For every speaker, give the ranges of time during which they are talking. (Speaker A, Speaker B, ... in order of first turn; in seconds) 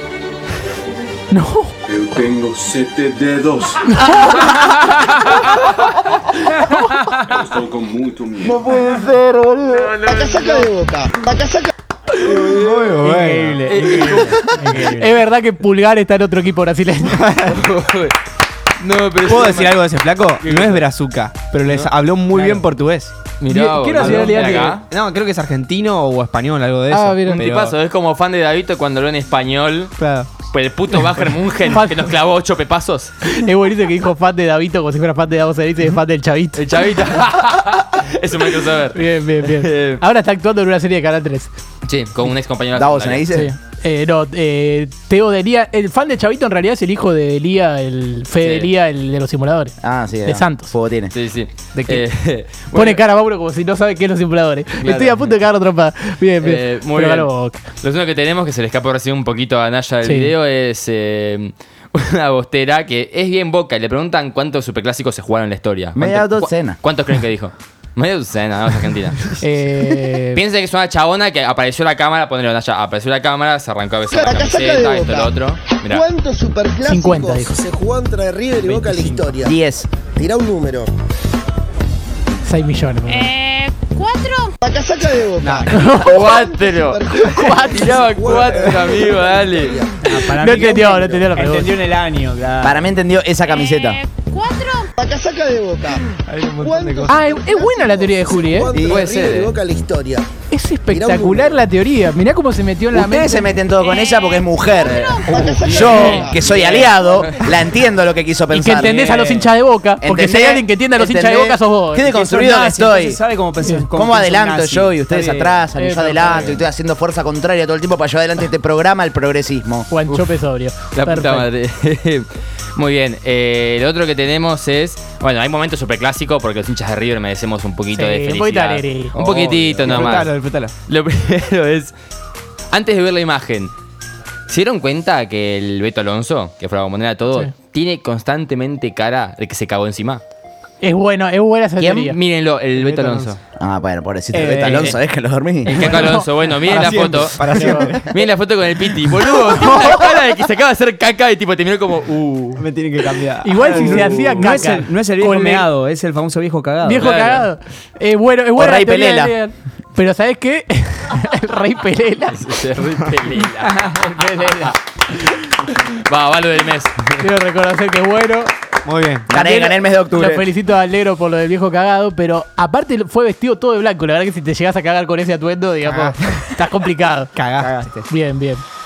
Speaker A: 1.3-1.8, 4.0-4.4, 6.5-7.0, 14.7-17.4, 23.5-24.8, 26.9-27.4, 31.6-32.1, 33.3-36.6, 38.9-41.5, 43.3-49.7, 50.2-50.7, 52.7-57.6, 60.0-60.3, 69.4-70.4, 76.8-77.6, 82.4-83.4, 85.7-86.3, 87.2-88.0, 90.2-91.8, 97.1-98.7, 100.5-103.5, 108.5-113.0, 113.6-113.8, 115.7-116.6, 119.9-121.5, 127.9-129.2, 140.8-142.2, 145.7-147.9, 153.4-155.7, 156.8-162.4, 167.2-168.5, 169.3-178.6
Speaker B: 1.9-3.9, 7.2-8.7
Speaker C: 4.2-6.1, 9.8-10.6, 12.2-12.9, 13.6-14.8, 17.4-18.1, 18.8-19.9, 20.4-20.9, 23.4-24.9, 27.2-33.1, 36.5-40.0, 41.9-43.4, 48.4-48.7, 51.1-53.0, 54.8-55.3, 56.4-57.3, 57.8-69.3, 70.3-76.1, 85.8-90.3, 96.1-97.2, 98.8-99.6, 104.8-107.5, 116.2-116.6, 120.9-130.3, 130.9-131.9, 132.7-133.7, 134.5-140.2, 141.9-143.4, 144.5-145.0, 145.6-152.7, 153.6-154.4, 157.0-157.5, 162.3-164.7, 166.0-167.2
Speaker D: 8.4-9.9, 42.7-43.5, 49.8-51.1, 66.0-66.8, 79.4-79.9, 92.6-94.0, 98.7-99.1, 102.9-109.5, 110.0-113.2, 113.9-119.9, 141.8-142.1, 143.6-145.8, 158.6-159.3, 169.3-170.5
Speaker E: 10.0-11.7, 74.1-79.5, 80.1-80.9, 84.6-90.2, 95.0-96.0, 96.6-100.3, 100.9-101.7, 105.3-107.3
Speaker F: 12.3-15.1, 19.2-23.1, 23.9-27.8, 30.0-30.3, 78.7-79.3, 85.4-85.7, 90.1-92.8, 112.7-115.5, 129.1-130.7, 142.8-143.4, 144.3-144.9, 145.7-148.2, 152.6-154.7, 155.3-155.6, 157.0-157.3, 163.6-164.5, 168.8-169.3, 175.8-176.4, 177.3-178.1
Speaker G: 13.0-13.8, 90.1-90.7, 91.3-92.6, 113.1-114.1, 154.4-157.0
Speaker H: 83.2-84.5, 93.6-94.9, 103.8-105.0